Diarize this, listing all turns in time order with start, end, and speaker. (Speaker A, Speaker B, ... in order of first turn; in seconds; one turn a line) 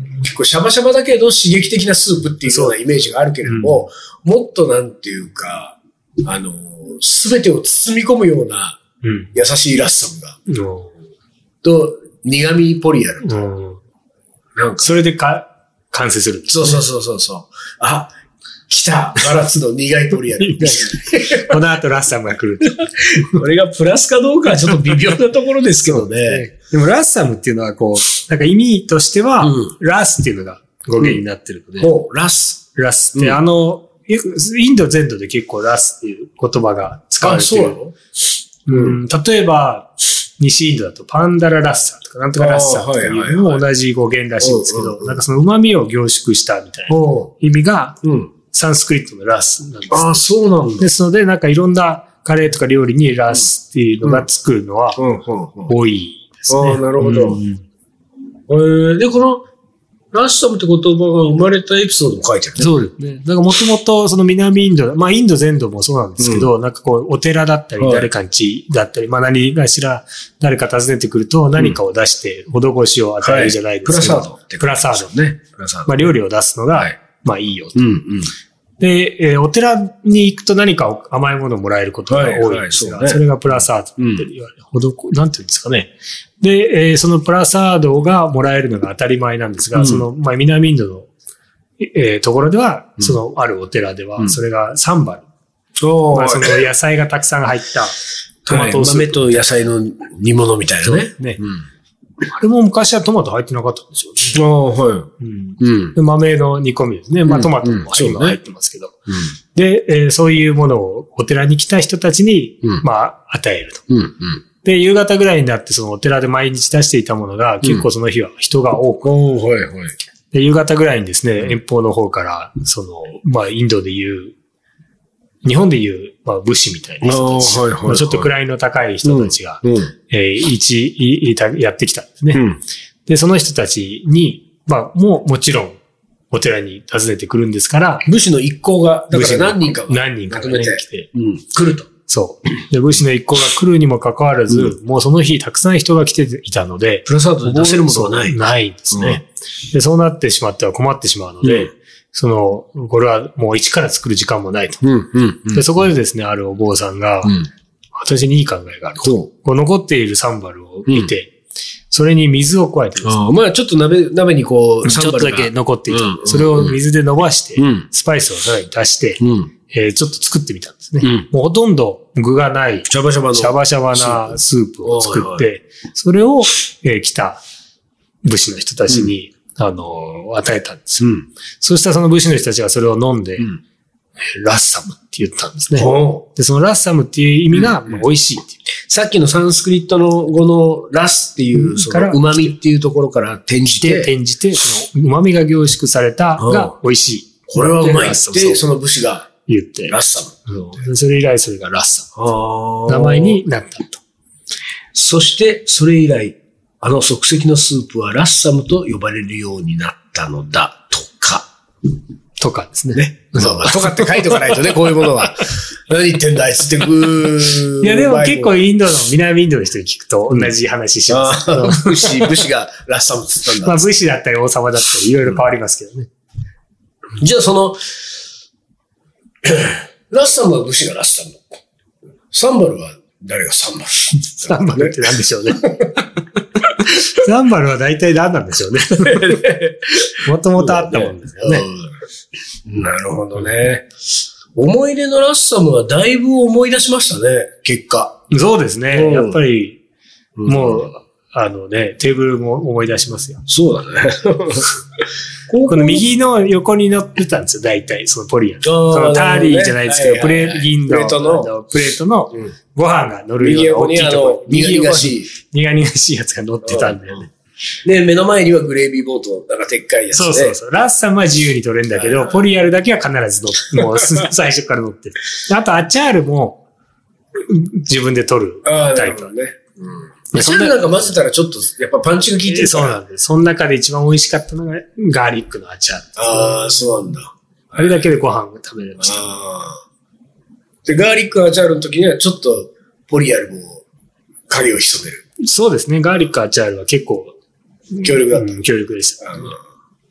Speaker A: 0.2-8.8
Speaker B: 2.5-2.8
Speaker B: 3.5-3.8
Speaker B: 9.0-9.3
Speaker A: 9.3-10.4
Speaker B: 10.5-10.9
Speaker A: 11.6-13.4
Speaker B: 13.2-13.8
Speaker A: 14.6-14.9
Speaker B: 14.8-16.8
Speaker A: 16.5-18.1
Speaker A: 18.7-21.6
Speaker B: 20.4-23.4
Speaker A: 23.2-26.5
Speaker B: 24.5-25.1
Speaker B: 25.8-31.9
Speaker A: 29.4-29.7
Speaker A: 31.8-32.6
Speaker B: 32.8-37.8
Speaker A: 33.2-33.4
Speaker A: 37.2-37.9
Speaker B: 38.7-48.0
Speaker A: 38.7-39.0
Speaker A: 42.4-43.7
Speaker A: 44.4-45.2
Speaker A: 46.9-47.3
Speaker A: 48.0-48.3
Speaker B: 48.5-50.2
Speaker A: 49.9-50.9
Speaker B: 50.8-55.0
Speaker A: 55.0-55.7
Speaker B: 55.7-57.6
Speaker A: 56.5-57.4
Speaker A: 58.5-59.4
Speaker A: 60.1-62.8
Speaker B: 62.6-75.1
Speaker A: 66.2-66.5
Speaker A: 67.8-68.1
Speaker A: 73.2-76.1
Speaker B: 75.9-77.8
Speaker A: 77.8-78.3
Speaker B: 78.8-91.1
Speaker A: 82.1-83.3
Speaker A: 84.0-84.3
Speaker A: 89.7-90.1
Speaker B: 91.8-95.2
Speaker A: 95.8-96.7
Speaker B: 96.1-99.7
Speaker A: 98.5-101.6
Speaker B: 100.8-101.4
Speaker B: 102.2-104.4
Speaker A: 104.3-106.0
Speaker B: 105.2-109.0
Speaker A: 107.2-108.4
Speaker A: 109.1-109.3
Speaker B: 109.5-113.8
Speaker A: 113.9-114.4
Speaker B: 114.6-119.1
Speaker A: 119.0-120.0
Speaker B: 120.3-124.3
Speaker B: 125.4-132.4
Speaker A: 127.0-128.3
Speaker A: 129.0-129.9
Speaker A: 132.3-132.6
Speaker B: 133.1-135.8
Speaker B: 136.3-138.1
Speaker A: 138.1-141.9
Speaker B: 139.1-141.1
Speaker B: 142.1-154.8
Speaker A: 147.1-148.4
Speaker A: 148.9-149.2
Speaker A: 151.4-151.7
Speaker A: 154.8-155.9
Speaker B: 155.5-157.4
Speaker B: 158.0-161.3
Speaker A: 159.0-159.3
Speaker A: 160.9-161.1
Speaker B: 161.9-163.2
Speaker A: 163.0-166.8
Speaker B: 164.8-177.4
Speaker A: 167.6-167.9
Speaker A: 169.2-169.5
Speaker A: 171.0-171.3
Speaker A: 172.9-175.5
Speaker B: 178.2-183.5
Speaker A: 181.0-181.3
Speaker B: 184.2-188.6
Speaker A: 185.8-186.2
Speaker A: 187.5-188.0
Speaker A: 188.9-194.1
Speaker B: 191.5-192.2
Speaker B: 193.8-198.7
Speaker A: 196.4-196.8
Speaker A: 197.5-199.3
Speaker B: 199.5-202.1
Speaker A: 199.9-200.5
Speaker A: 202.2-203.4
Speaker B: 202.9-204.0
Speaker A: 204.9-211.5
Speaker B: 212.4-214.4
Speaker A: 212.9-218.6
Speaker B: 217.8-222.4
Speaker A: 221.1-223.9
Speaker B: 223.6-226.1
Speaker A: 227.2-227.8
Speaker A: 229.4-231.5
Speaker A: 232.3-235.9
Speaker B: 234.1-235.6
Speaker B: 236.9-239.5
Speaker A: 239.1-242.0
Speaker B: 240.2-241.7
Speaker A: 242.7-243.9
Speaker A: 244.6-248.2
Speaker B: 248.3-249.8
Speaker A: 248.9-249.4
Speaker A: 250.4-250.9
Speaker B: 250.5-253.4
Speaker A: 253.5-254.7
Speaker A: 255.5-256.1
Speaker B: 255.6-267.3
Speaker A: 258.6-261.5
Speaker A: 263.4-265.3
Speaker A: 266.6-267.2
Speaker A: 267.9-270.6
Speaker B: 270.1-276.6
Speaker A: 271.9-272.5
Speaker B: 277.4-279.3
Speaker A: 278.6-283.0
Speaker B: 280.3-281.0
Speaker B: 282.5-286.8
Speaker A: 286.2-288.1
Speaker B: 287.8-289.2
Speaker A: 289.0-289.8
Speaker A: 290.9-293.9
Speaker A: 294.5-295.2
Speaker B: 295.4-297.4
Speaker B: 297.9-299.6
Speaker A: 298.0-298.6
Speaker A: 299.3-299.5